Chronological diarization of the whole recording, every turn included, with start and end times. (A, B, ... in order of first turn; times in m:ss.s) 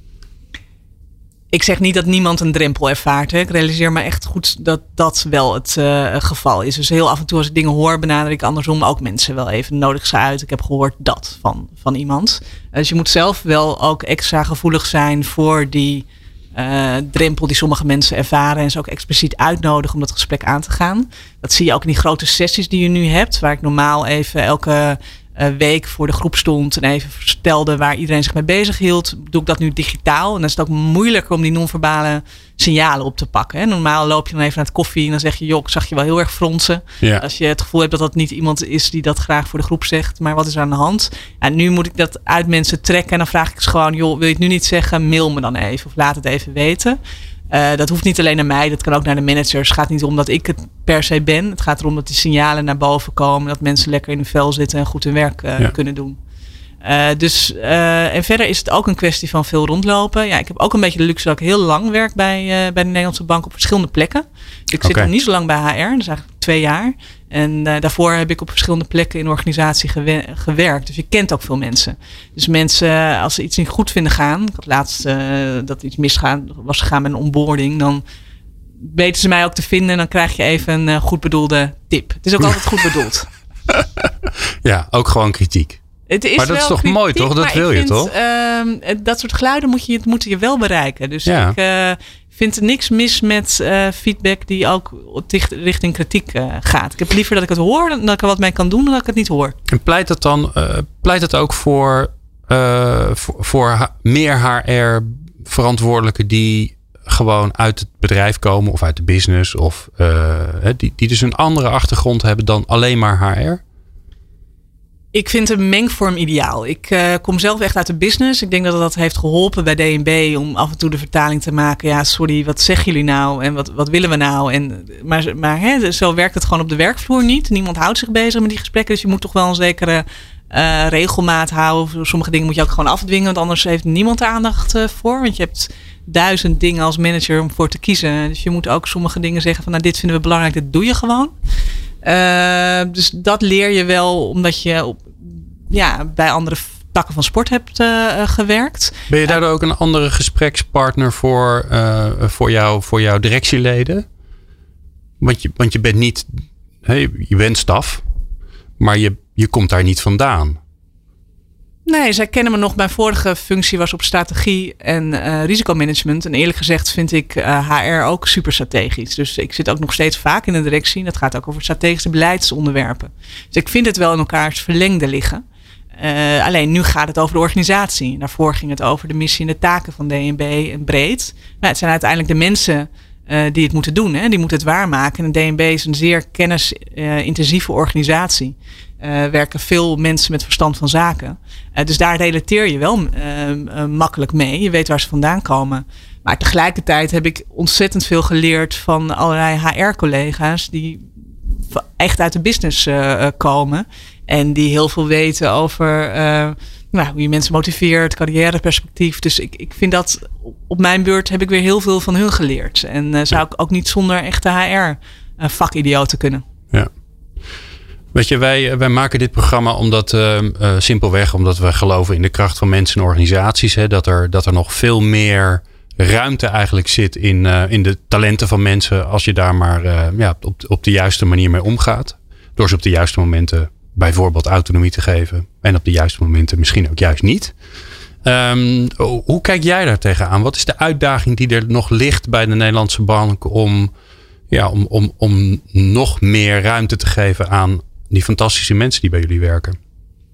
0:01.5-0:47.0 A
0:47.5-0:56.2 A
0:56.8-1:18.0 A
1:04.8-1:05.1 B
1:18.8-1:23.3 A
1:24.6-1:25.8 B
1:26.1-1:39.5 A
1:26.4-1:28.1 B
1:31.2-1:31.6 B
1:39.7-1:53.6 B
1:55.1-2:21.3 A
2:22.0-2:29.4 A
2:29.1-2:34.0 B
2:35.2-2:36.3 B
2:36.8-2:38.0 B
2:38.8-2:40.6 B
2:41.8-2:55.4 A
2:56.0-3:21.0 A
3:21.7-3:36.4 A
3:38.1-3:57.5 B
3:58.2-4:03.9 B
4:04.5-4:09.8 B